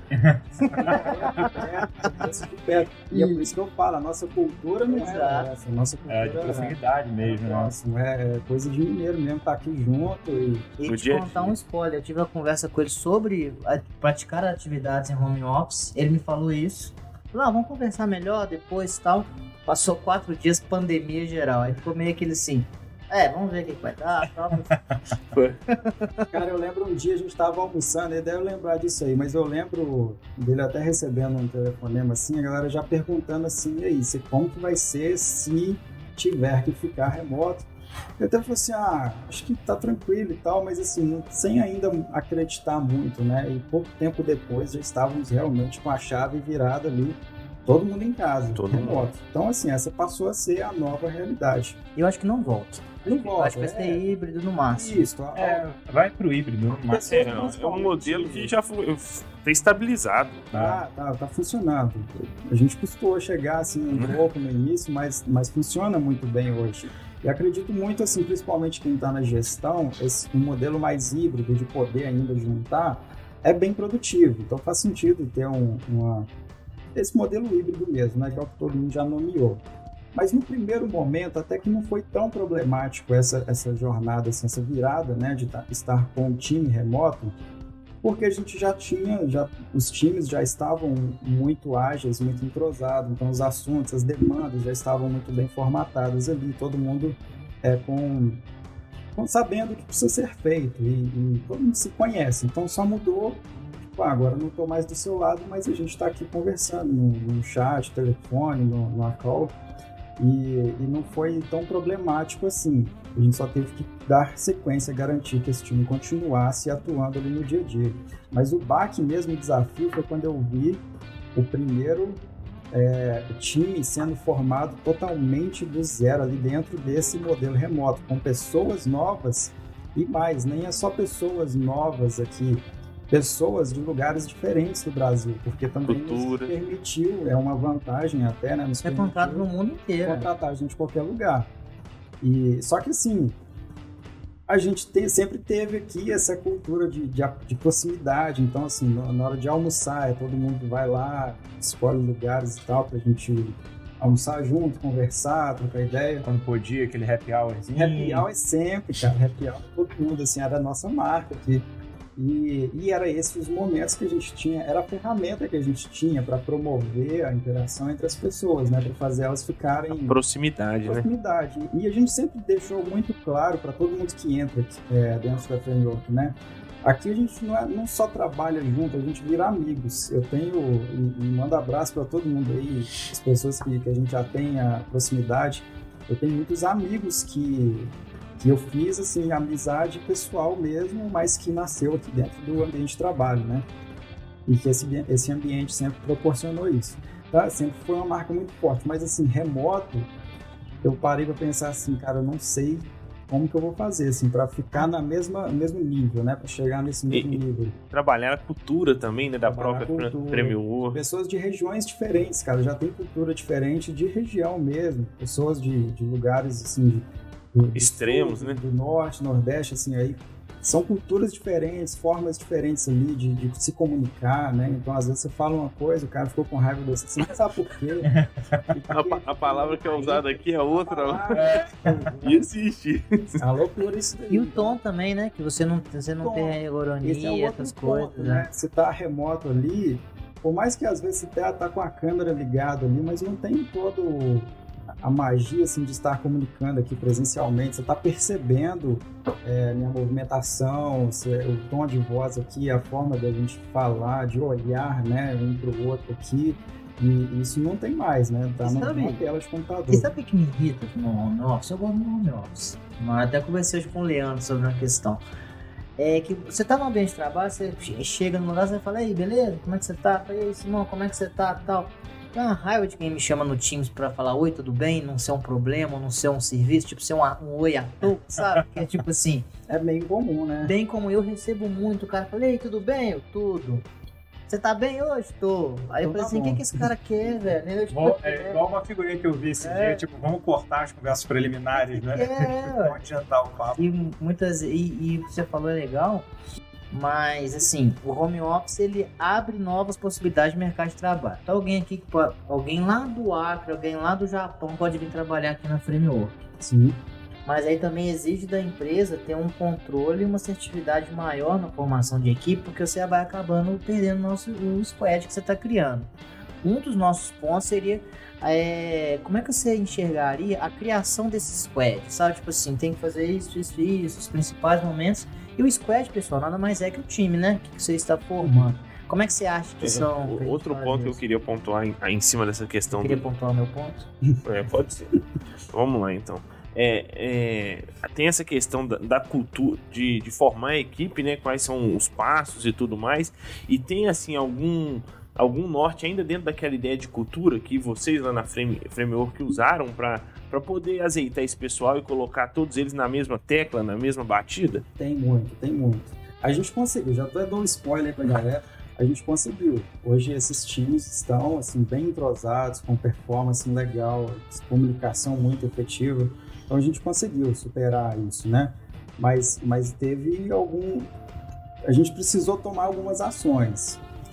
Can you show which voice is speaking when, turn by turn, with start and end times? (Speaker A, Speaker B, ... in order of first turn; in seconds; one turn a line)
Speaker A: 0.1-1.1
Speaker B: 0.7-10.7
Speaker C: 0.7-2.2
Speaker C: 3.1-3.5
Speaker C: 4.9-5.5
Speaker A: 6.1-7.7
Speaker C: 10.8-24.8
Speaker D: 10.9-11.6
Speaker D: 25.3-25.6
Speaker C: 25.8-26.3
Speaker B: 26.3-37.7
Speaker B: 38.2-51.8
Speaker D: 48.6-49.1
Speaker C: 52.0-55.1
Speaker B: 53.0-54.0
Speaker B: 54.7-55.6
Speaker A: 55.4-57.6
Speaker B: 56.9-58.5
Speaker D: 57.0-60.5
Speaker A: 60.5-60.8
Speaker B: 60.5-76.3
Speaker D: 63.9-64.2
Speaker B: 77.0-79.6
Speaker B: 80.1-87.4
Speaker B: 88.0-98.4
Speaker B: 99.1-103.4
Speaker B: 104.0-109.5
Speaker B: 110.2-120.8
Speaker B: 121.3-139.5
Speaker D: 135.9-136.5
Speaker C: 138.8-140.3
Speaker B: 140.0-141.5
Speaker B: 142.2-143.4
Speaker B: 144.5-156.3
Speaker A: 156.2-158.3
Speaker B: 157.7-170.2
Speaker D: 169.9-171.1
Speaker B: 170.9-193.7
Speaker B: 194.5-200.1
Speaker B: 200.8-207.8
Speaker D: 207.1-211.0
Speaker B: 209.5-228.1
Speaker D: 217.8-218.6
Speaker A: 228.0-228.8
Speaker B: 228.7-232.4
Speaker D: 228.9-233.4
Speaker A: 231.3-232.3
Speaker B: 233.4-234.8
Speaker C: 234.3-238.5
Speaker B: 236.2-244.5
Speaker B: 245.0-260.1
Speaker C: 258.6-259.2
Speaker C: 259.9-265.2
Speaker C: 266.0-279.5
Speaker A: 278.3-278.6
Speaker B: 279.7-280.8
Speaker C: 280.6-283.9
Speaker C: 284.5-288.6
Speaker B: 286.0-286.9
Speaker A: 287.9-293.8
Speaker C: 289.6-290.0
Speaker C: 291.7-293.0
Speaker C: 293.8-296.3
Speaker C: 296.9-306.4
Speaker B: 306.6-307.0
Speaker C: 307.5-316.1
Speaker C: 316.6-331.2
Speaker B: 328.4-328.7
Speaker D: 329.8-333.2
Speaker C: 332.9-334.1
Speaker D: 334.4-335.1
Speaker D: 335.7-354.8
Speaker B: 355.0-371.1
Speaker B: 371.9-374.0